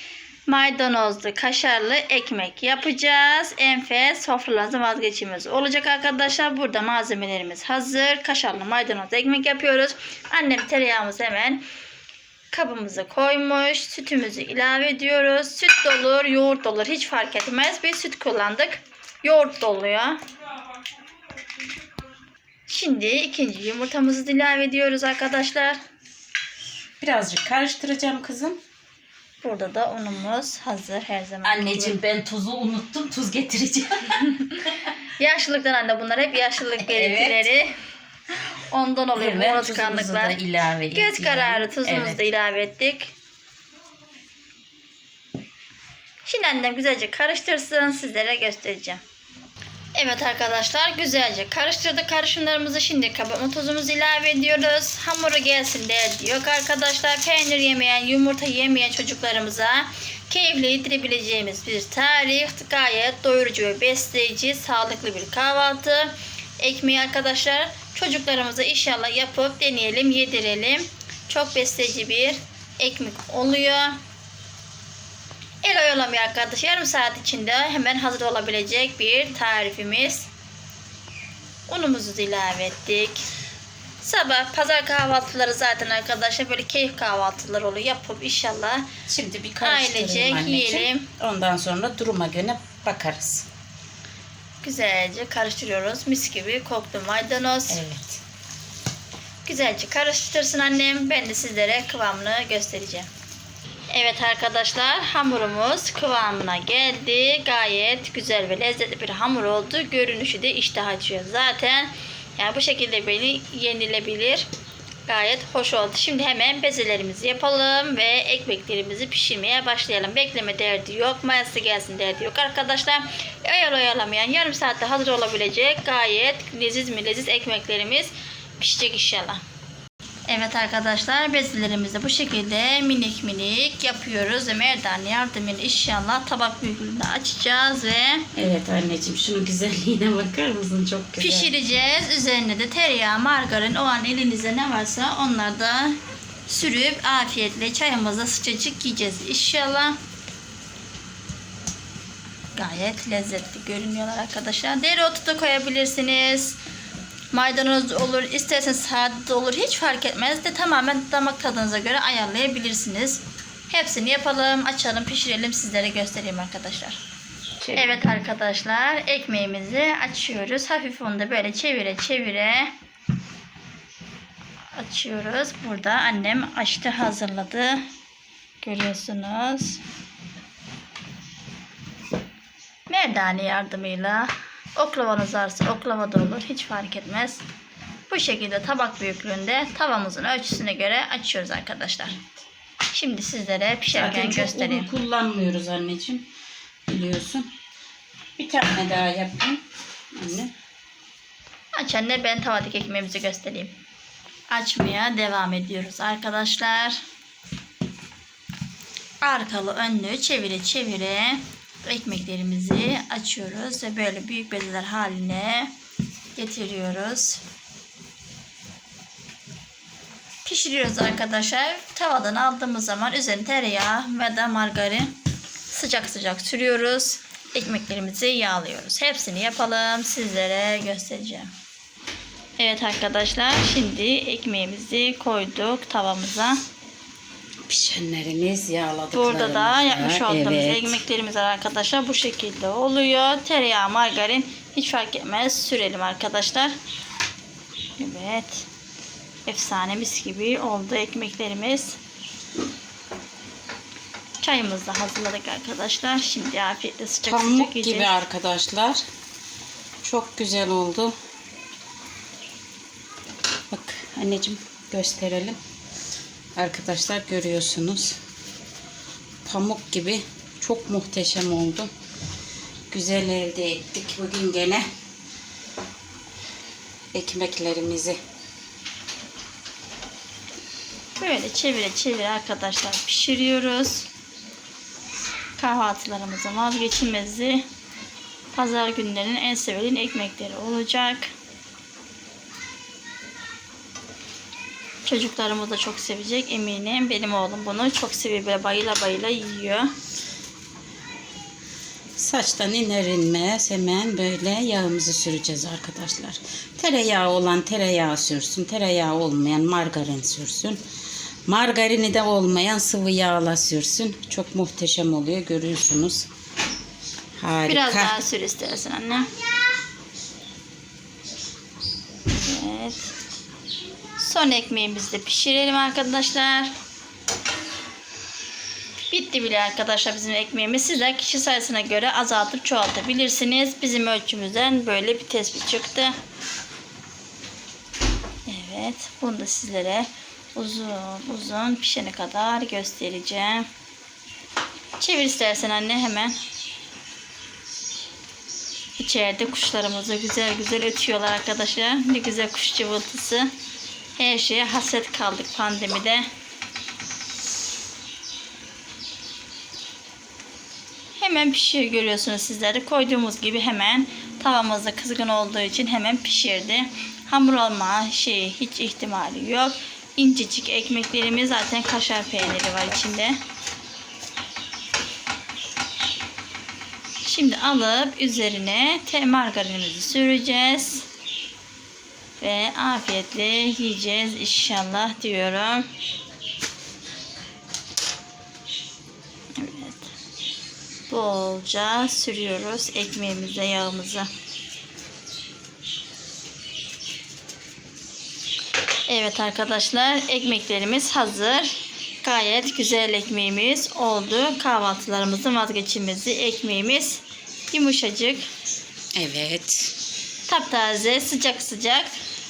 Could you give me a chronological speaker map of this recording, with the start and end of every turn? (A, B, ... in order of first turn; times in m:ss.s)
0:00.5-0:11.6 A
0:12.5-0:20.2 A
0:22.7-0:25.8 A
0:27.0-0:28.6 B
0:29.4-0:32.0 A
0:31.4-0:34.8 B
0:35.1-0:37.7 A
0:36.8-0:37.5 B
0:38.7-0:43.1 A
0:39.2-0:42.2 B
0:46.2-0:49.0 A
0:49.9-1:14.0 A
1:15.6-1:20.3 A
1:21.7-1:23.2 A
1:24.0-1:28.8 A
1:29.1-1:33.5 B
1:29.6-1:31.1 A
1:34.6-1:37.8 A
1:37.7-1:38.2 B
1:39.4-1:43.1 A
1:43.9-1:54.4 A
1:55.1-2:09.4 A
2:10.3-2:18.3 A
2:18.3-2:21.5 B
2:21.2-2:30.0 A
2:32.6-2:36.6 A
2:37.3-2:47.0 A
2:47.6-2:48.0 B
2:47.7-2:52.7 A
2:54.7-2:57.8 A
2:58.6-2:59.8 A
3:02.9-3:07.4 A
3:08.1-3:12.2 A
3:12.9-3:14.9 A
3:13.9-3:16.2 B
3:16.9-3:17.5 B
3:18.4-3:19.6 B
3:20.1-3:20.5 B
3:21.7-3:23.7 A
3:24.5-3:27.0 A
3:29.2-3:35.7 A
3:36.4-3:37.4 A
3:40.4-3:45.1 A
3:45.7-3:51.5 A
3:52.6-3:56.6 A
3:57.6-4:01.0 B
3:59.1-4:06.7 A
4:08.0-4:08.7 A
4:09.4-4:12.0 A
4:14.4-4:18.2 A
4:17.2-4:19.0 B
4:20.0-4:21.1 B
4:23.7-4:25.6 B
4:26.6-4:28.2 B
4:29.4-4:31.9 B
4:32.9-4:34.8 B
4:37.1-4:38.2 B
4:41.2-4:44.1 A
4:45.6-4:47.6 A
4:48.5-4:51.3 A
4:55.0-4:59.9 A
5:02.2-5:10.8 B
5:11.5-5:16.3 B
5:17.4-5:18.2 B
5:17.6-5:19.3 A
5:22.3-5:23.1 A
5:24.2-5:26.7 A
5:29.1-5:36.2 A
5:38.5-5:43.7 A
5:45.0-5:46.4 A
5:49.0-5:53.5 A
5:54.2-5:56.3 A
6:01.2-6:13.4 A
6:17.2-6:21.0 A
6:22.4-6:25.9 A
6:29.6-6:30.1 A
6:31.1-6:34.3 A
6:39.1-6:48.5 A
6:49.2-6:49.9 B
6:50.5-6:52.1 A